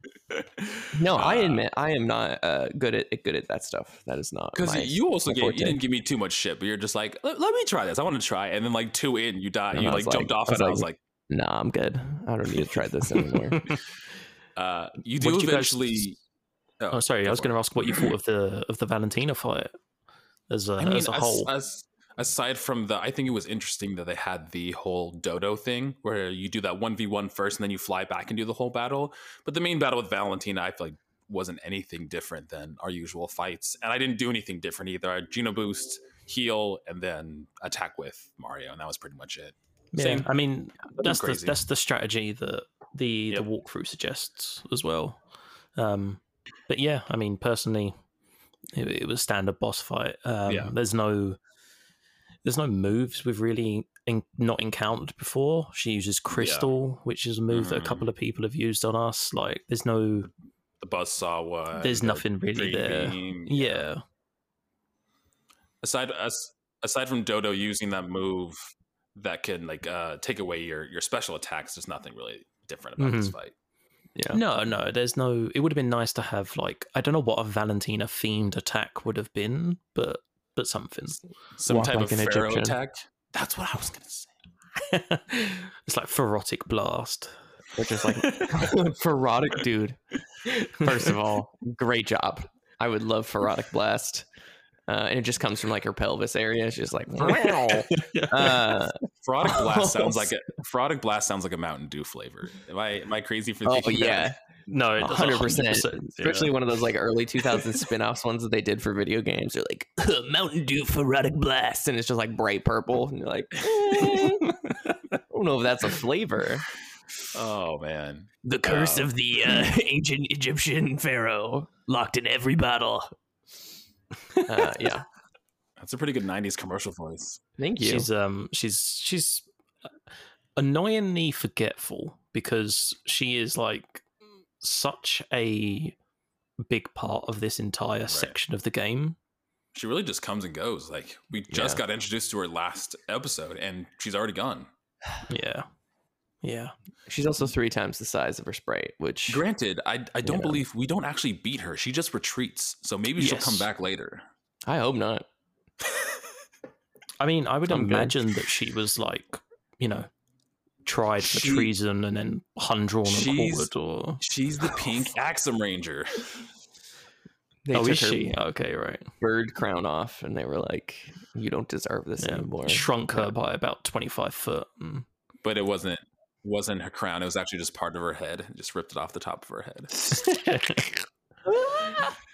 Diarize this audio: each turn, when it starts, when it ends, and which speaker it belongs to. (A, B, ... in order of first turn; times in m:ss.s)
0:00.3-0:01.6 A
0:00.9-0:05.8 B
0:04.6-0:11.0 A
0:09.7-0:13.7 B
0:14.6-0:16.2 A
0:15.2-0:16.1 C
0:16.8-0:18.1 A
0:16.9-0:19.7 C
0:20.5-0:21.5 C
0:20.8-0:40.3 A
0:39.9-0:45.2 C
0:40.9-0:41.6 A
0:45.8-0:48.0 C
0:48.7-0:51.4 C
0:50.5-0:50.7 A
0:52.4-1:00.3 C
0:56.3-0:56.7 A
0:57.5-0:58.1 A
1:00.8-1:03.9 A
1:01.8-1:04.0 C
1:05.8-1:13.5 A
1:13.0-1:13.4 C
1:14.3-1:21.2 C
1:21.6-1:24.3 A
1:21.7-1:22.8 B
1:24.8-1:27.3 C
1:27.8-1:30.2 B
1:30.5-1:30.9 C
1:30.7-1:34.3 B
1:34.9-1:40.3 B
1:37.2-1:38.8 C
1:39.2-1:44.3 A
1:43.7-1:44.4 B
1:44.7-1:46.6 C
1:45.0-1:54.6 B
1:53.8-1:54.3 A
1:54.4-1:54.9 C
1:55.3-1:56.7 B
1:57.3-1:59.1 A
1:58.4-2:03.1 B
2:04.5-2:05.1 B
2:05.8-2:07.4 A
2:07.6-2:08.1 B
2:07.8-2:09.5 C
2:10.6-2:14.1 C
2:14.6-2:16.0 C
2:16.6-2:19.2 C
2:18.1-2:18.4 A
2:19.7-2:24.7 A
2:21.5-2:21.8 B
2:25.3-2:25.7 C
2:26.4-2:26.7 C
2:27.1-2:29.4 B
2:29.3-2:34.2 A
2:30.3-2:30.5 B
2:33.2-2:33.7 C
2:34.7-2:35.3 B
2:37.2-2:40.1 C
2:37.7-2:38.1 B
2:40.8-2:44.8 C
2:41.2-2:41.7 A
2:43.1-2:46.4 A
2:47.6-2:48.4 B
2:47.7-2:49.1 C
2:49.2-2:53.3 B
2:52.2-2:55.1 C
2:55.4-2:59.9 A
3:00.2-3:00.9 C
3:01.6-3:02.1 B